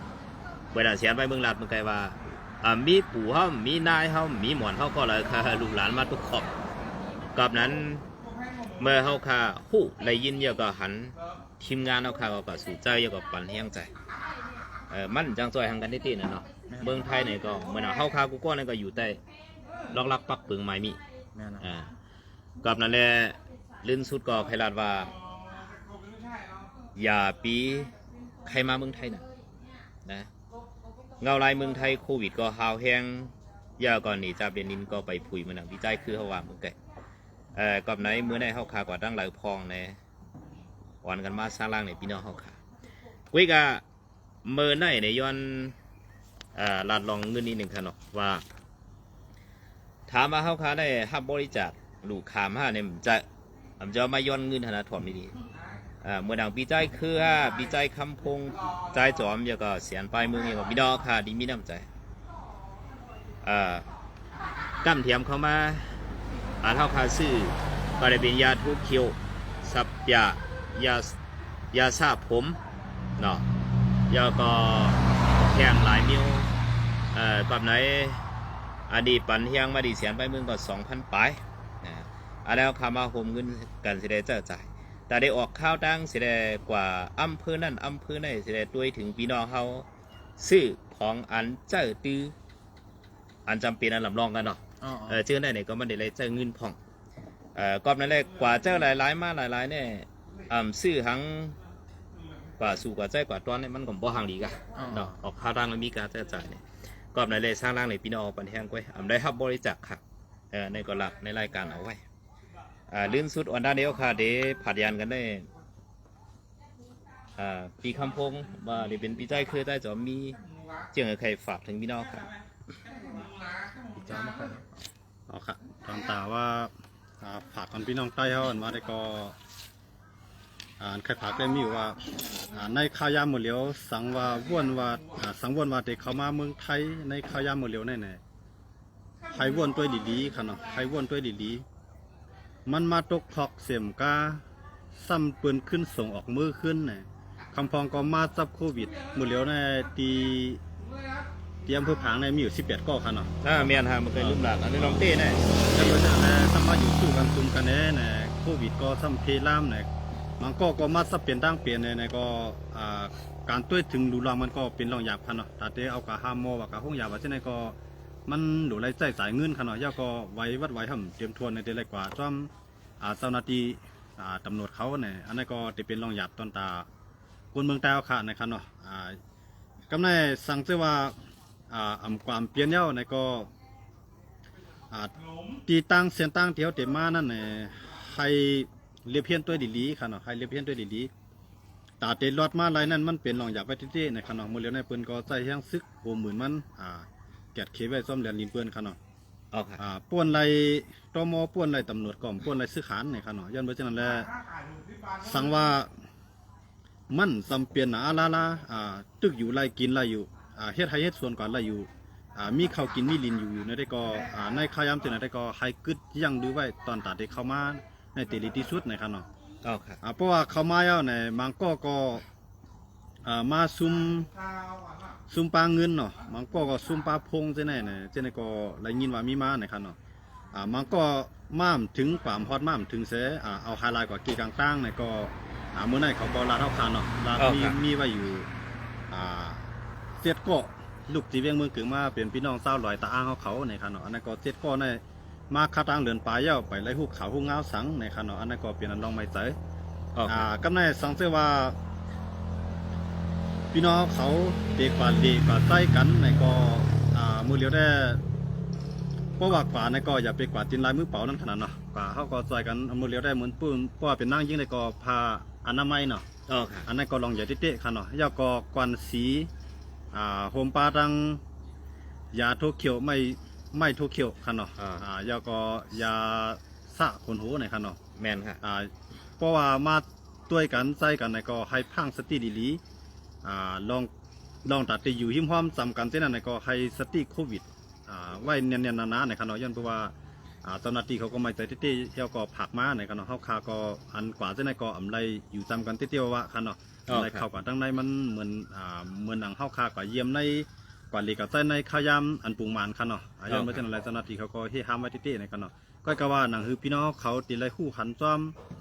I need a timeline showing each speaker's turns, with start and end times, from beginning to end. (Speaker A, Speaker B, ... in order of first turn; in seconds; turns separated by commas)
Speaker A: 0.7-6.5, Speaker A: 7.3-8.1, Speaker A: 8.8-13.9, Speaker A: 14.9-19.2, Speaker B: 16.7-17.1, Speaker A: 19.9-21.0, Speaker B: 21.4-21.7, Speaker A: 21.6-21.9, Speaker A: 22.6-25.1, Speaker A: 26.9-27.9, Speaker A: 28.4-29.2, Speaker A: 30.1-30.3, Speaker A: 31.2-36.8, Speaker A: 37.5-40.0, Speaker A: 41.0-42.6, Speaker A: 43.3-43.8, Speaker A: 44.4-45.8, Speaker A: 46.5-48.4, Speaker A: 50.1-53.3, Speaker A: 53.8-55.4, Speaker A: 56.0-61.9, Speaker A: 63.4-63.9, Speaker A: 64.8-66.0, Speaker A: 66.6-71.2, Speaker A: 71.7-72.6, Speaker A: 73.2-73.5, Speaker A: 74.1-76.5, Speaker A: 77.1-78.2, Speaker A: 78.9-89.9, Speaker A: 90.4-92.3, Speaker A: 93.5-96.8, Speaker B: 94.8-95.2, Speaker A: 97.5-101.6, Speaker A: 102.6-110.0, Speaker B: 104.8-105.2, Speaker A: 110.5-112.0, Speaker A: 112.9-115.5, Speaker A: 117.4-120.4, Speaker A: 120.9-122.3, Speaker B: 123.9-124.8, Speaker C: 125.3-129.4, Speaker C: 130.8-138.2, Speaker C: 139.3-141.7, Speaker C: 142.7-144.4, Speaker C: 144.9-150.6, Speaker C: 151.7-153.3, Speaker A: 153.4-156.0, Speaker C: 154.2-155.1, Speaker C: 155.6-159.9, Speaker C: 160.4-176.9, Speaker C: 177.5-179.2, Speaker C: 179.9-183.5, Speaker C: 184.9-191.1, Speaker C: 192.0-199.0, Speaker A: 199.5-199.8, Speaker C: 199.8-204.3, Speaker C: 205.2-205.9, Speaker C: 207.1-219.3, Speaker A: 219.6-220.0, Speaker C: 220.0-222.2, Speaker C: 223.2-224.3, Speaker C: 225.3-230.0, Speaker C: 230.5-238.5, Speaker A: 237.4-237.8, Speaker C: 239.1-249.6, Speaker A: 250.2-250.5, Speaker C: 250.3-251.8, Speaker C: 253.7-258.2, Speaker C: 259.4-266.3, Speaker A: 266.5-266.9, Speaker C: 266.9-269.5, Speaker C: 270.1-271.4, Speaker C: 272.3-278.0, Speaker A: 274.8-275.0, Speaker A: 278.2-278.6, Speaker C: 278.6-282.8, Speaker C: 283.4-284.1, Speaker C: 284.6-290.1, Speaker C: 290.6-308.6, Speaker A: 297.1-297.5, Speaker A: 303.5-303.8